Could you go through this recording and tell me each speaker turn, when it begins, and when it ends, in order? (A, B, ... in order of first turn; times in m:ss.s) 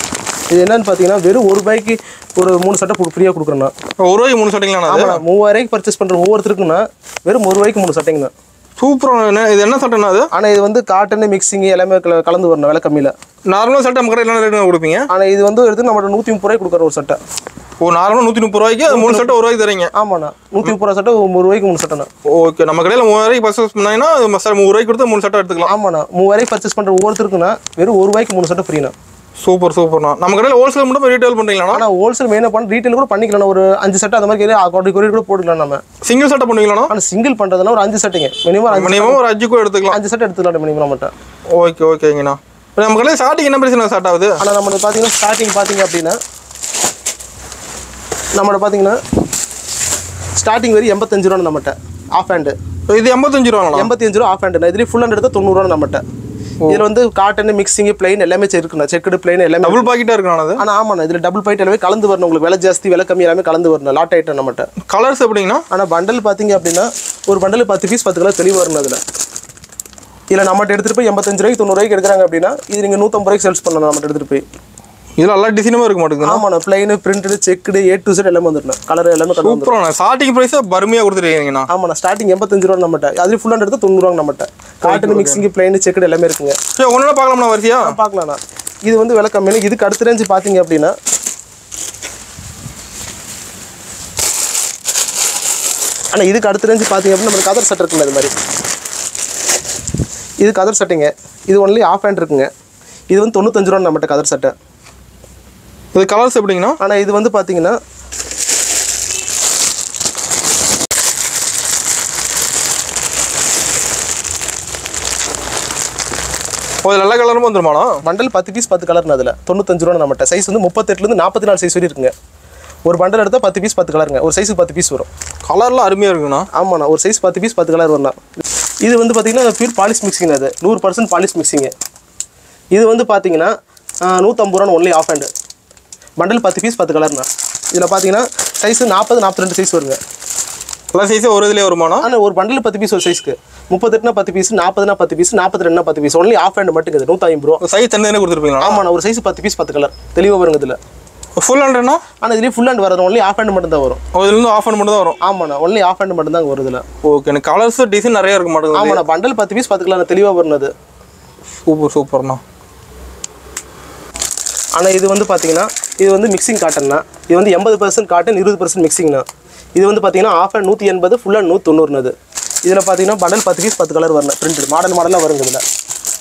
0:00.5-0:03.7 A
0:04.0-0:05.2 B
0:04.9-0:08.3 A
0:08.8-0:10.3 B
0:10.3-0:13.1 A
0:13.5-0:15.1 B
0:15.1-0:17.2 A
0:17.8-0:19.9 B
0:18.9-0:19.3 A
0:19.9-0:22.1 A
0:22.2-0:25.7 B
0:25.6-0:28.9 A
0:29.4-0:31.8 B
0:31.7-0:35.8 A
0:36.0-0:36.9 B
0:36.9-0:39.2 A
0:38.7-0:40.0 B
0:39.9-0:41.1 A
0:41.6-0:44.4 B
0:44.4-0:46.2 A
0:48.4-0:49.0 A
0:50.4-0:52.6 A
0:52.9-0:53.9 B
0:53.7-0:56.0 A
0:56.7-0:59.9 A
0:59.6-1:00.6 B
1:00.6-1:04.7 A
1:04.9-1:05.6 B
1:05.7-1:09.0 A
1:10.3-1:14.4 A
1:15.2-1:16.4 B
1:16.2-1:19.7 A
1:19.4-1:21.7 B
1:21.7-1:26.6 A
1:24.8-1:25.4 B
1:26.8-1:28.0 B
1:27.8-1:30.9 A
1:36.1-1:38.3 A
1:40.4-1:42.5 A
1:43.1-1:44.5 A
1:45.9-1:46.8 B
1:46.8-1:47.8 A
1:56.8-1:58.0 B
1:58.0-2:02.1 A
2:02.8-2:05.1 A
2:05.4-2:06.5 B
2:06.5-2:11.7 A
2:12.7-2:13.5 A
2:14.1-2:15.3 A
2:16.2-2:20.0 A
2:20.9-2:22.0 B
2:22.0-2:27.6 A
2:27.6-2:28.8 B
2:28.6-2:30.8 A
2:31.4-2:32.0 B
2:32.2-2:34.0 A
2:34.1-2:35.2 B
2:35.2-2:36.8 A
2:37.0-2:39.0 B
2:38.7-2:40.7 A
2:41.6-2:42.4 B
2:44.8-2:55.6 A